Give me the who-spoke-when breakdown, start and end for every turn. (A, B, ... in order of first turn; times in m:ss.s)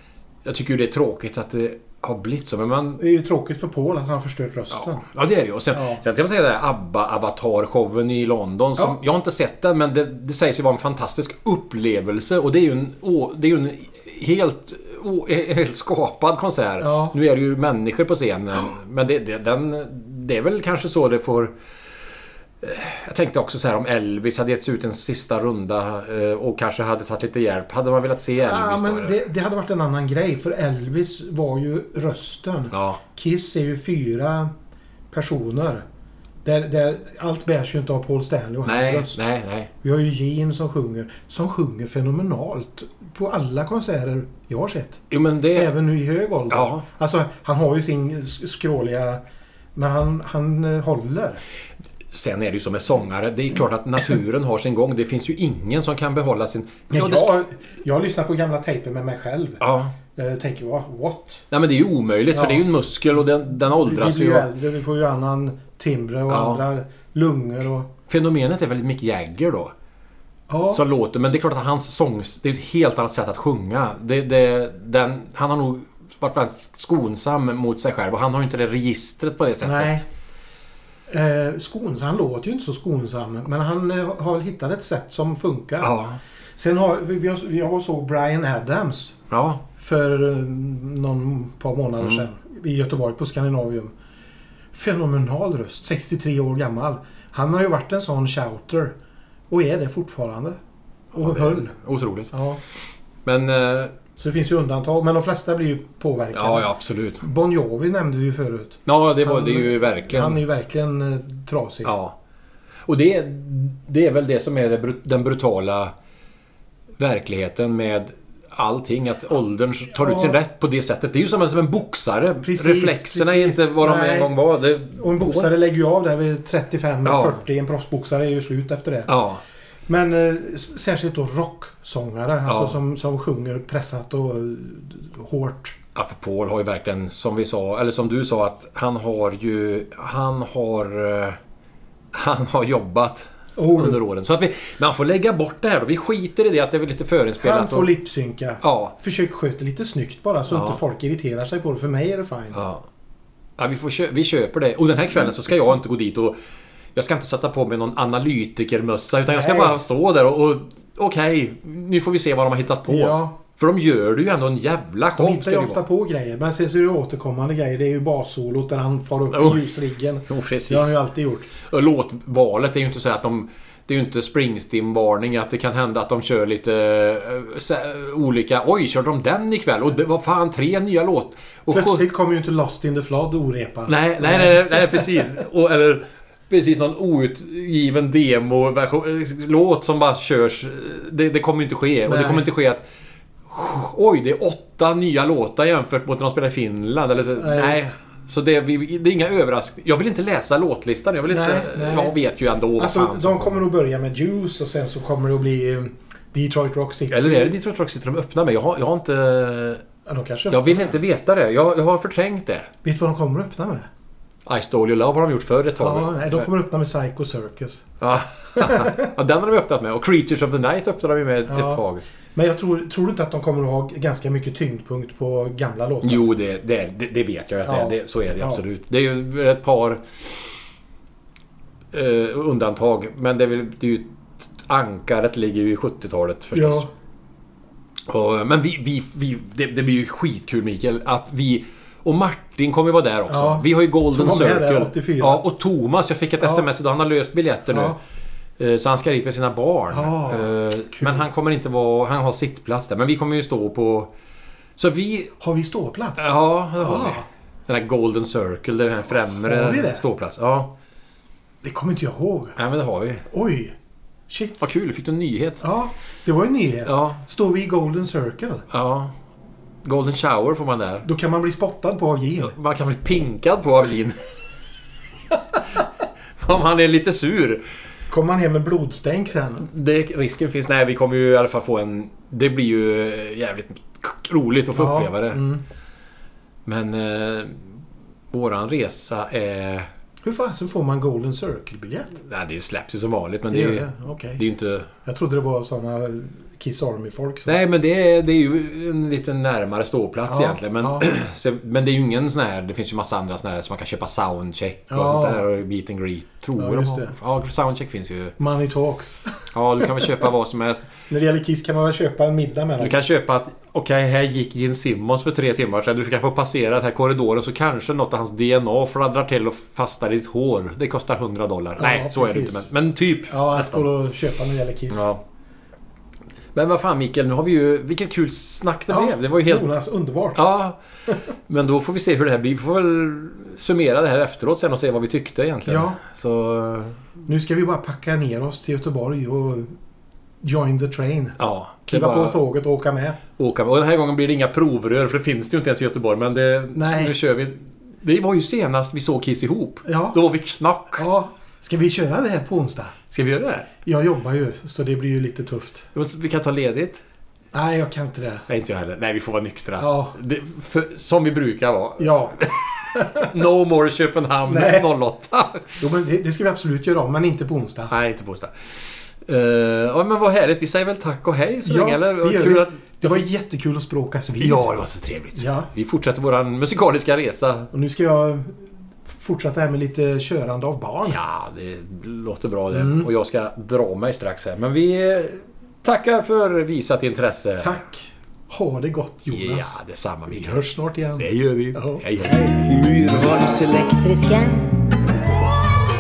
0:00.4-0:03.0 A
0:03.0-0:05.0 B
0:04.7-0:21.5 A
0:05.7-0:06.0 B
0:16.8-0:17.2 B
0:22.6-0:29.2 A
0:28.4-0:34.5 B
0:32.7-0:33.0 A
0:35.1-0:35.8 B
0:36.4-0:39.2 B
0:38.6-0:39.7 A
0:39.8-0:49.2 B
0:45.1-0:45.7 A
0:46.5-0:46.8 A
0:49.8-0:51.4 B
0:52.1-0:57.3 A
0:56.9-0:59.6 B
0:59.6-1:00.0 A
1:00.2-1:01.4 B
1:01.5-1:04.5 A
1:02.3-1:02.6 B
1:03.6-1:07.9 B
1:06.3-1:06.6 A
1:08.1-1:09.7 A
1:10.5-1:10.8 B
1:10.7-1:20.0 A
1:19.6-1:20.0 B
1:21.1-1:26.0 B
1:25.8-1:26.2 A
1:26.6-1:29.2 B
1:29.3-1:29.6 A
1:29.8-1:33.9 B
1:34.7-1:39.0 B
1:39.5-1:40.6 B
1:41.1-1:41.8 B
1:41.1-1:43.9 A
1:42.3-1:42.6 B
1:44.2-1:51.9 B
1:46.3-1:47.2 A
1:48.9-1:50.4 A
1:51.8-1:52.2 A
1:52.9-1:55.9 A
1:57.0-2:05.5 A
2:00.0-2:00.4 B
2:02.4-2:04.4 B
2:04.9-2:09.1 B
2:07.0-2:07.4 A
2:09.1-2:09.4 A
2:09.9-2:15.8 B
2:12.5-2:12.8 A
2:16.0-2:21.4 A
2:22.1-2:27.9 A
2:23.6-2:24.0 B
2:27.4-2:32.6 B
2:28.6-2:29.0 A
2:30.5-2:30.8 A
2:32.5-2:32.9 A
2:33.6-2:36.4 A
2:37.0-2:45.8 A
2:39.3-2:39.8 B
2:42.9-2:43.4 B
2:45.2-2:51.5 B
2:49.3-2:49.7 A
2:50.3-2:51.0 A
2:51.6-3:02.1 A
3:01.7-3:05.1 B
3:03.9-3:12.8 A
3:12.1-3:12.5 B
3:13.5-3:23.6 A
3:17.4-3:18.0 B
3:21.3-3:22.2 B
3:22.8-3:27.6 B
3:27.1-3:29.8 A
3:30.1-3:31.0 B
3:30.5-3:32.7 A
3:32.8-3:33.9 B
3:34.5-3:36.5 A
3:35.8-3:37.9 B
3:38.0-3:42.0 A
3:38.6-3:39.1 B
3:41.5-3:41.8 B
3:42.3-3:46.3 B
3:46.0-3:50.5 A
3:47.6-3:48.6 B
3:51.9-3:56.9 A
3:56.5-3:56.9 B
3:58.1-4:08.0 A
4:03.3-4:05.4 B
4:06.4-4:06.7 B
4:07.7-4:08.0 B
4:08.6-4:14.1 A
4:09.9-4:11.3 B
4:14.8-4:15.4 A
4:15.4-4:17.3 B
4:16.2-4:20.7 A
4:19.4-4:20.0 B
4:21.6-4:22.6 B
4:22.6-4:23.3 A
4:23.3-4:23.8 B
4:24.3-4:24.7 B
4:24.6-4:25.6 A
4:25.6-4:28.7 B
4:26.9-4:27.2 A
4:28.7-4:29.2 A
4:29.8-4:31.1 A
4:31.0-4:32.6 B
4:32.5-4:34.2 A
4:36.4-4:37.6 A
4:38.1-4:39.7 B
4:39.6-4:45.4 A
4:44.7-4:45.6 B
4:46.6-4:47.8 A
4:48.3-4:49.9 A
4:50.2-4:52.2 B
4:52.2-4:54.9 A
4:53.5-4:54.4 B
4:55.0-4:57.6 B
4:57.5-5:08.4 A
5:00.3-5:01.1 B
5:04.9-5:05.4 B
5:06.6-5:07.2 B
5:08.4-5:09.2 B
5:09.5-5:10.9 A
5:11.1-5:13.0 B
5:12.8-5:23.9 A
5:21.8-5:22.7 B
5:23.3-5:25.1 B
5:24.9-5:25.2 A
5:26.5-5:29.8 A
5:28.9-5:30.4 B
5:30.4-5:30.8 A
5:31.5-5:37.0 A
5:35.7-5:36.0 B
5:37.3-5:39.7 B
5:40.4-5:43.2 B
5:41.4-5:42.4 A
5:43.4-5:51.0 A
5:46.7-5:47.2 B
5:49.9-5:50.2 B
5:50.9-5:53.0 B
5:53.1-5:53.7 A
5:53.8-5:55.9 B
5:55.9-5:57.0 A
5:57.5-5:58.5 B
5:58.5-6:05.8 A
5:59.8-6:00.2 B
6:02.0-6:03.3 B
6:04.5-6:04.9 B
6:05.8-6:07.9 B
6:07.9-6:13.3 A
6:11.6-6:15.7 B
6:14.4-6:17.7 A
6:17.7-6:21.2 B
6:21.0-6:27.8 A
6:22.7-6:23.1 B
6:27.6-6:32.5 B
6:29.3-6:30.6 A
6:31.2-6:32.8 A
6:32.7-6:34.8 C